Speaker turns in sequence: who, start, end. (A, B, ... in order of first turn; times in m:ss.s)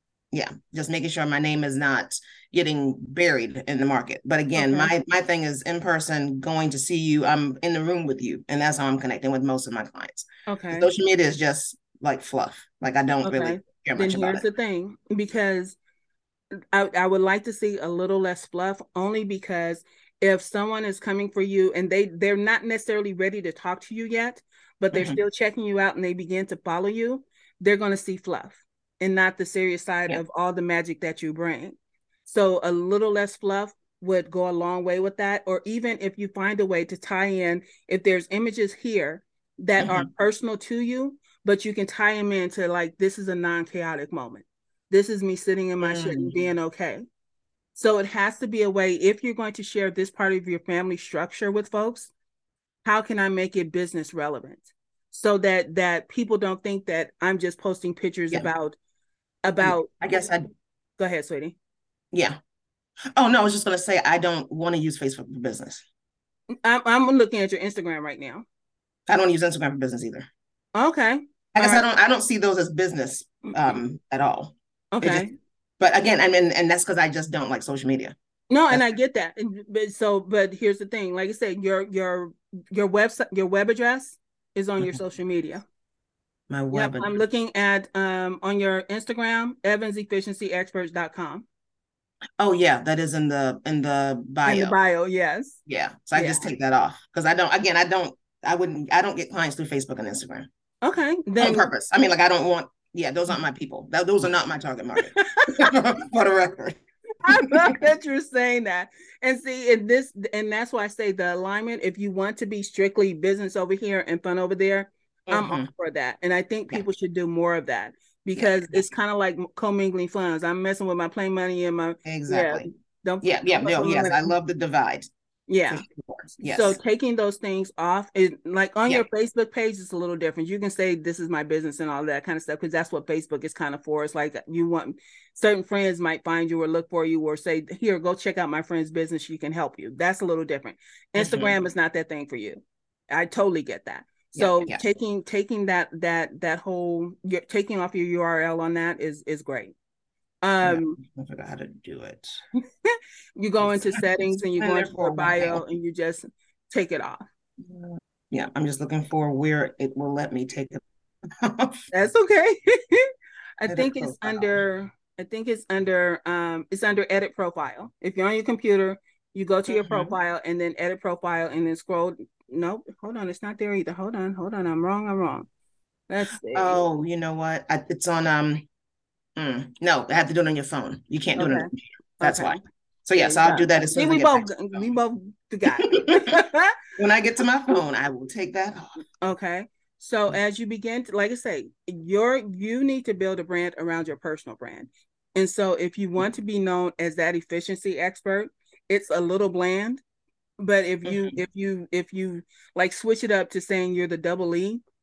0:00.3-0:14.4 A
0:04.5-0:04.9 B
0:10.5-0:10.9 B
0:13.2-0:15.8 B
0:16.5-0:47.0 B
0:24.9-0:25.2 A
0:39.8-0:40.1 A
0:45.8-0:46.5 A
0:47.7-0:52.1 B
0:52.8-0:58.8 B
0:59.4-0:59.9 B
0:59.6-1:00.5 A
1:01.0-1:01.6 B
1:02.1-1:02.4 A
1:03.2-1:05.8 A
1:06.6-1:08.4 B
1:09.1-1:10.3 A
1:10.7-1:11.8 B
1:11.5-1:15.2 A
1:13.5-1:13.8 B
1:14.9-1:15.3 B
1:15.8-1:18.1 A
1:18.5-1:25.6 B
1:26.5-1:27.1 A
1:26.7-1:31.4 B
1:32.4-1:34.7 A
1:34.4-1:35.6 B
1:35.6-1:40.5 A
1:36.1-1:36.4 B
1:40.8-1:41.7 B
1:41.4-1:46.8 A
1:45.1-1:45.6 B
1:47.2-2:04.3 B
1:47.3-1:47.7 A
1:55.3-1:55.7 A
1:58.4-1:58.8 A
2:02.0-2:02.7 A
2:03.2-2:05.1 A
2:05.5-2:05.8 B
2:05.7-2:06.8 A
2:06.4-2:29.7 B
2:21.2-2:21.5 A
2:24.3-2:24.8 A
2:30.4-2:31.0 B
2:30.6-2:32.4 A
2:32.8-2:37.2 B
2:33.6-2:35.6 A
2:37.6-2:41.8 A
2:41.9-2:43.1 B
2:43.6-2:55.5 B
2:43.7-2:44.6 A
2:49.7-2:50.1 A
2:56.1-2:56.8 B
2:56.5-2:58.6 A
2:59.4-3:04.7 A
3:01.4-3:01.7 B
3:02.2-3:02.6 B
3:03.2-3:06.8 B
3:05.8-3:06.2 A
3:07.0-3:09.0 A
3:09.2-3:20.0 B
3:20.6-3:24.8 B
3:21.0-3:21.4 A